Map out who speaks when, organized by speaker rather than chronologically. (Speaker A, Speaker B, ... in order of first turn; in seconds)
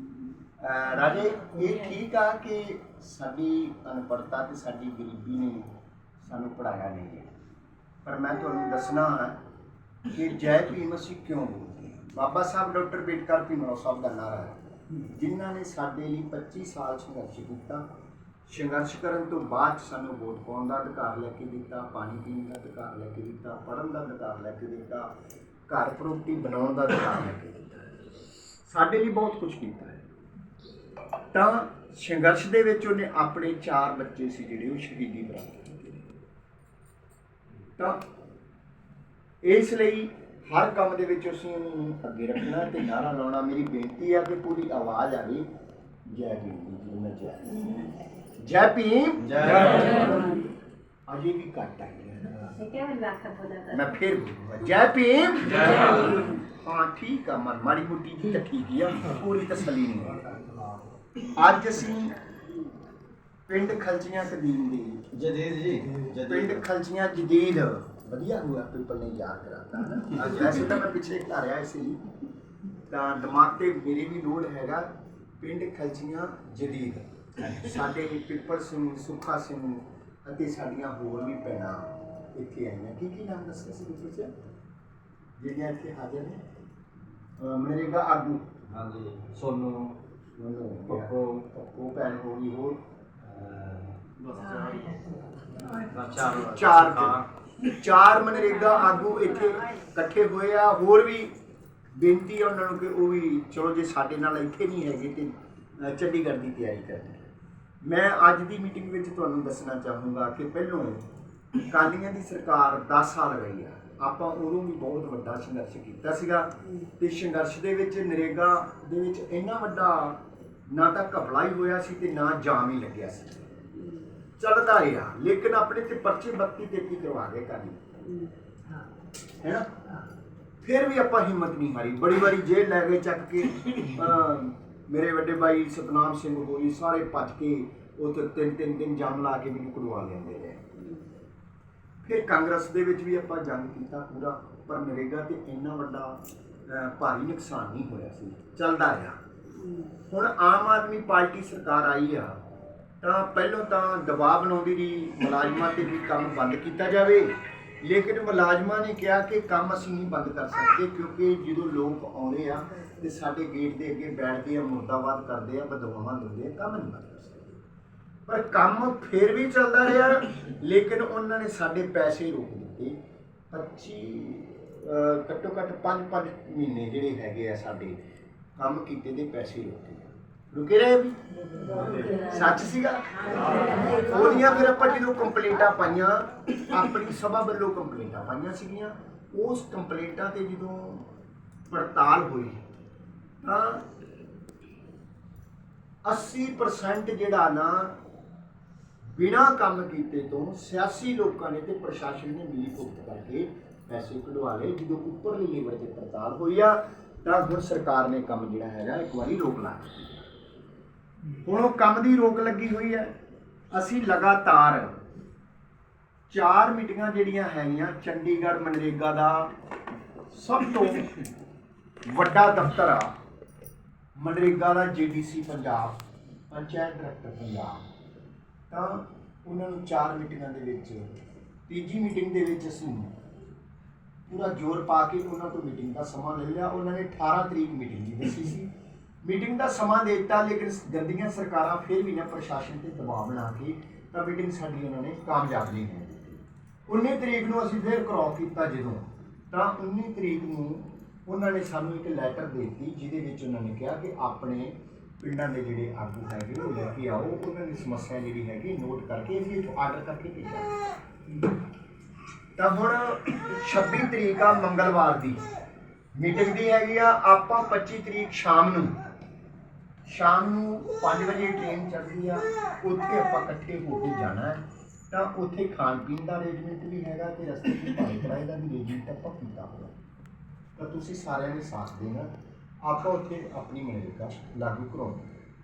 Speaker A: 0.6-5.7, 6.2-7.3, 8.1-9.4, 10.1-17.8, 18.5-25.1, 25.7-27.9, 28.7-30.0, 31.3-36.0, 39.4-45.5, 46.1-47.9, 48.4-50.5, 51.1-52.6, 53.7-60.3, 61.3-62.2, 63.5-65.1, 66.1-72.0, 72.9-84.3, 85.4-86.4, 87.4-88.5, 90.3-92.8, 96.4-101.3, 102.0-107.2, 107.8-111.0, 111.6-123.5, 124.4-127.8, 129.4-129.7, 130.6-140.6, 142.0-149.2, 150.1-152.4, 153.0-167.6, 168.3-173.0, 173.5-178.0, 178.6-191.1, 191.7-192.6, 193.4-193.9, 196.1-197.9, 199.1-210.2, 211.4-213.1, 213.7-215.0, 216.3-219.5, 220.3-221.1, 222.1-223.1, 224.2-226.0, 226.5-227.8, 228.7-231.1, 231.7-233.1, 234.3-238.7, 239.2-260.7, 262.6-265.4, 266.1-268.9, 270.1-279.9, 280.8-282.3, 282.8-285.3
Speaker B: 49.2-50.0, 55.6-56.2, 60.2-60.9, 65.1-66.6, 70.1-70.7, 88.7-90.0, 90.9-91.5, 93.2-97.2
Speaker C: 52.6-53.9, 123.8-124.1, 140.8-141.1, 149.6-149.9, 182.0-182.4, 183.8-184.1